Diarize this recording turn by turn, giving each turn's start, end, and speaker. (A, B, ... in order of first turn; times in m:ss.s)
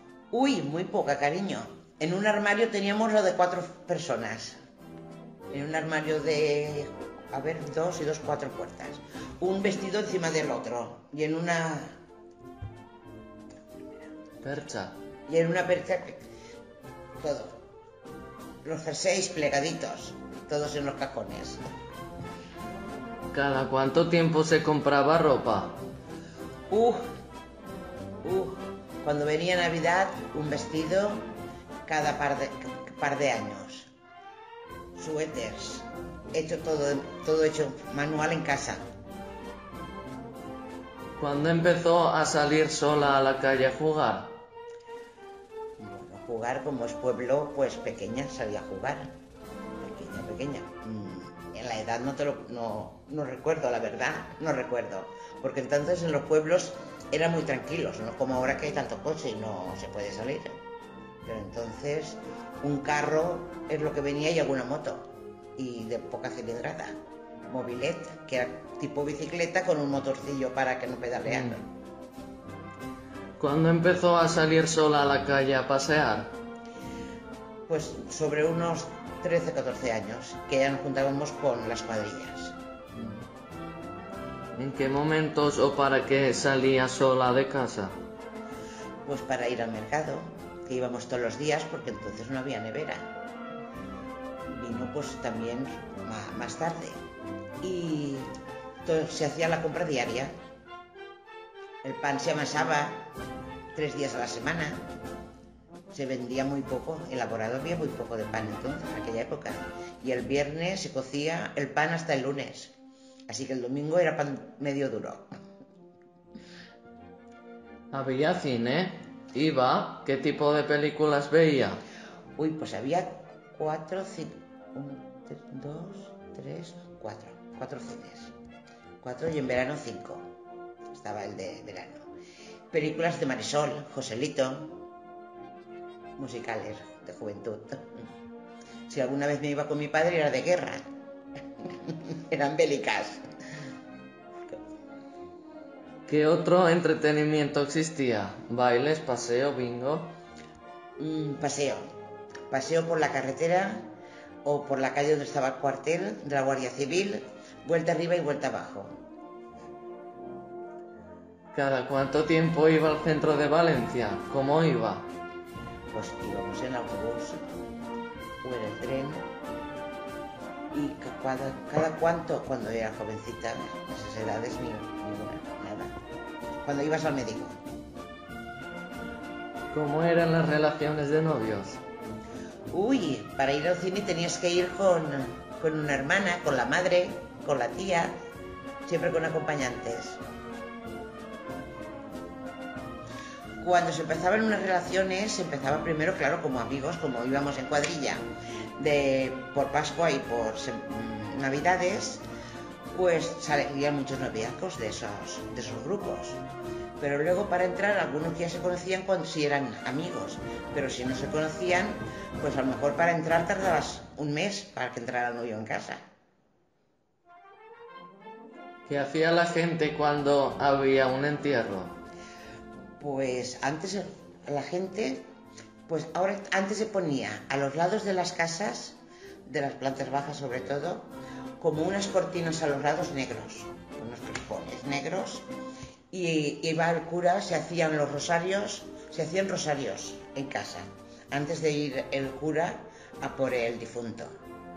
0:00.3-0:04.6 A
0:05.5-0:12.0 A
0:14.4-0:14.9 B
0:15.3-0:16.2 A
0:17.2-0:17.6 A
0:18.6-0:21.6 A
0:23.3-0:25.7 B
0:26.7-0:27.0 A
0:28.2-0:31.3 A
0:31.9-0:33.9 A
0:35.0-0:38.8 A
0:41.2-0:44.3 B
0:45.8-0:49.1 A
0:49.8-1:00.6 A
1:01.2-1:06.9 A
1:07.5-1:11.7 A
1:11.3-1:11.5 B
1:13.4-1:16.3 B
1:17.7-1:22.6 A
1:24.5-1:27.9 B
1:29.0-1:33.1 A
1:34.5-1:37.0 A
1:37.6-1:38.3 A
1:38.8-1:40.3 A
1:41.8-1:43.1 A
1:43.7-1:44.8 A
1:45.9-1:52.7 A
1:53.3-1:55.3 A
1:57.9-2:01.8 B
2:02.4-2:08.3 A
2:09.0-2:10.2 A
2:10.9-2:12.1 A
2:12.7-2:14.8 A
2:16.2-2:18.0 A
2:18.9-2:20.8 A
2:21.6-2:23.2 A
2:26.1-2:30.1 B
2:31.0-2:31.8 A
2:32.5-2:33.8 A
2:34.4-2:38.9 A
2:41.5-2:45.1 B
2:45.9-2:47.4 A
2:48.4-2:49.2 A
2:50.7-2:56.0 A
2:56.6-2:57.6 A
2:59.7-3:01.8 B
3:02.7-3:08.1 A
3:08.8-3:10.2 A
3:13.6-3:18.2 A
3:18.8-3:22.2 A
3:22.9-3:26.4 A
3:27.0-3:36.0 A
3:38.9-3:41.9 B
3:43.0-3:45.2 A
3:45.9-3:55.4 A
3:56.1-4:04.3 A